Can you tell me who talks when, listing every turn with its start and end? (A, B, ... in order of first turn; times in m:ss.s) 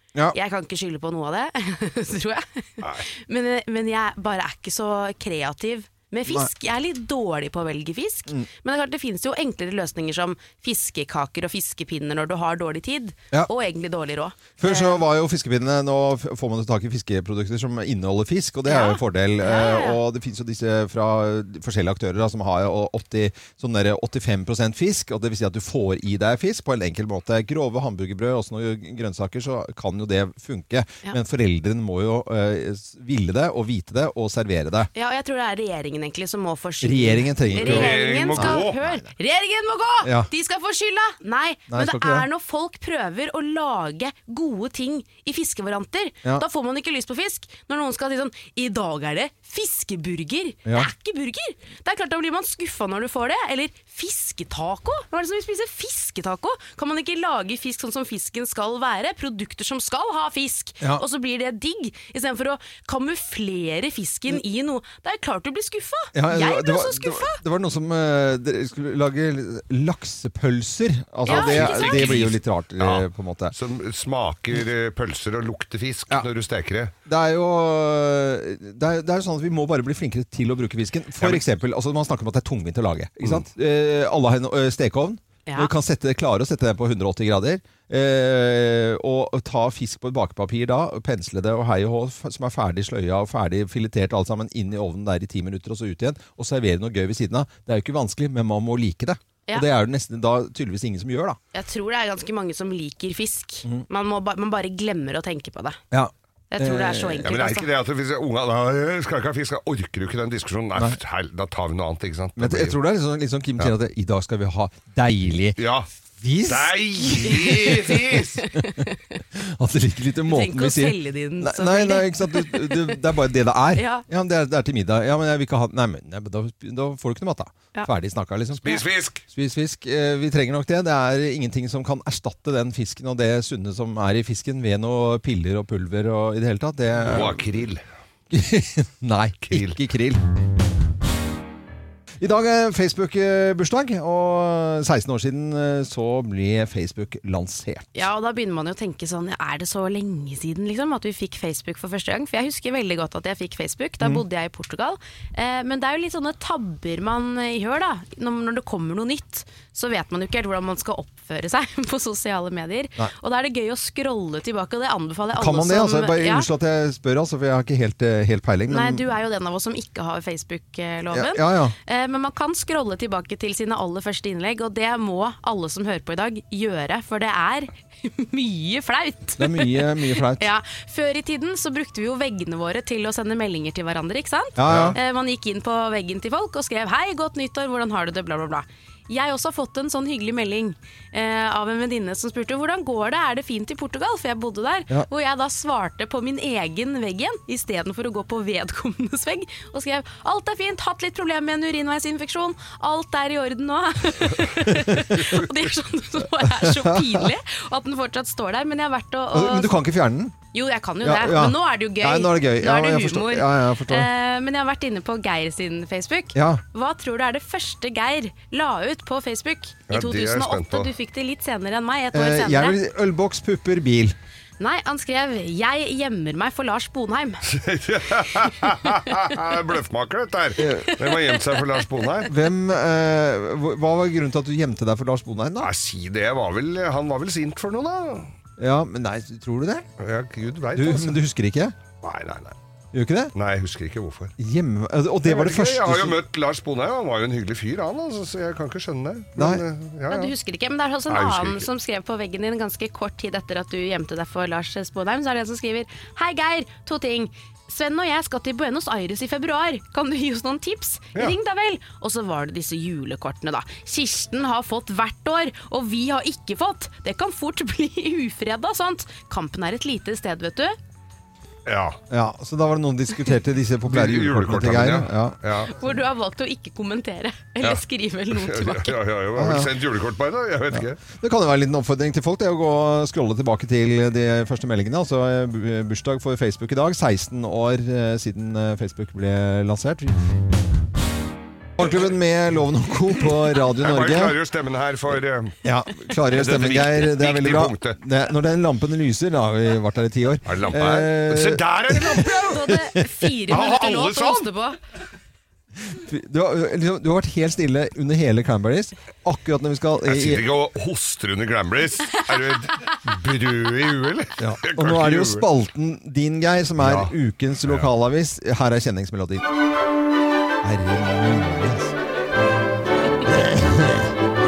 0:00.3-0:15.0 A
0:14.6-0:34.9 B
0:18.7-0:20.0 A
0:35.0-1:07.4 A
0:36.8-0:39.1 B
0:37.6-0:38.8 C
0:40.0-0:40.3 B
0:41.7-0:42.3 B
0:50.7-0:50.9 B
1:06.1-1:13.6 B
1:11.3-1:12.2 A
1:11.3-1:16.9 C
1:17.1-1:41.4 B
1:41.5-1:45.8 A
1:45.9-1:47.3 B
1:46.5-1:47.7 A
1:47.2-1:52.8 C
1:52.4-1:55.6 B
1:55.6-1:55.9 C
1:56.2-1:58.0 B
1:56.5-1:58.4 C
1:57.5-1:57.8 A
1:58.4-1:58.9 A
1:59.4-2:17.4 B
2:00.3-2:03.0 A
2:03.8-2:04.0 A
2:08.6-2:09.2 C
2:17.0-2:17.8 C
2:18.3-2:20.2 B
2:19.4-2:19.8 C
2:22.2-2:28.0 B
2:28.0-2:46.5 A
2:45.4-2:49.0 B
2:48.7-3:29.8 A
2:51.1-2:51.7 B
2:59.4-3:00.4 B
3:04.6-3:05.0 B
3:04.7-3:05.0 C
3:24.6-3:25.2 B
3:26.6-3:27.2 B
3:29.3-3:30.4 B
3:30.5-3:42.8 A
3:31.0-3:34.1 B
3:36.4-3:36.6 B
3:39.9-3:40.9 C
3:42.1-3:44.2 B
3:44.6-3:47.4 A
3:47.4-3:52.3 C
3:50.6-3:51.0 B
3:52.3-3:55.7 B
3:55.6-3:58.3 C
3:58.6-3:59.9 B
4:00.0-4:01.2 C
4:00.8-4:01.8 B
4:02.0-4:02.6 C
4:02.9-4:03.3 B
4:03.3-4:04.4 C
4:04.4-4:06.2 B
4:05.2-4:10.3 C
4:09.4-4:09.6 B
4:10.1-4:30.8 A
4:11.1-4:11.7 C
4:31.7-4:32.0 C
4:32.1-4:35.4 B
4:33.9-4:35.7 C
4:35.7-4:39.0 A
4:38.3-4:41.0 C
4:39.4-4:39.7 B
4:40.7-4:50.2 B
4:51.8-4:54.4 B
4:53.8-4:55.6 C
4:55.6-5:03.3 B
4:56.3-4:58.0 C
5:00.4-5:02.6 C
5:02.2-5:04.8 A
5:03.5-5:04.5 C
5:05.9-5:10.4 B
5:10.0-5:15.5 C
5:14.4-5:19.5 B
5:16.8-5:17.1 C
5:20.6-5:21.9 B
5:23.2-5:24.1 B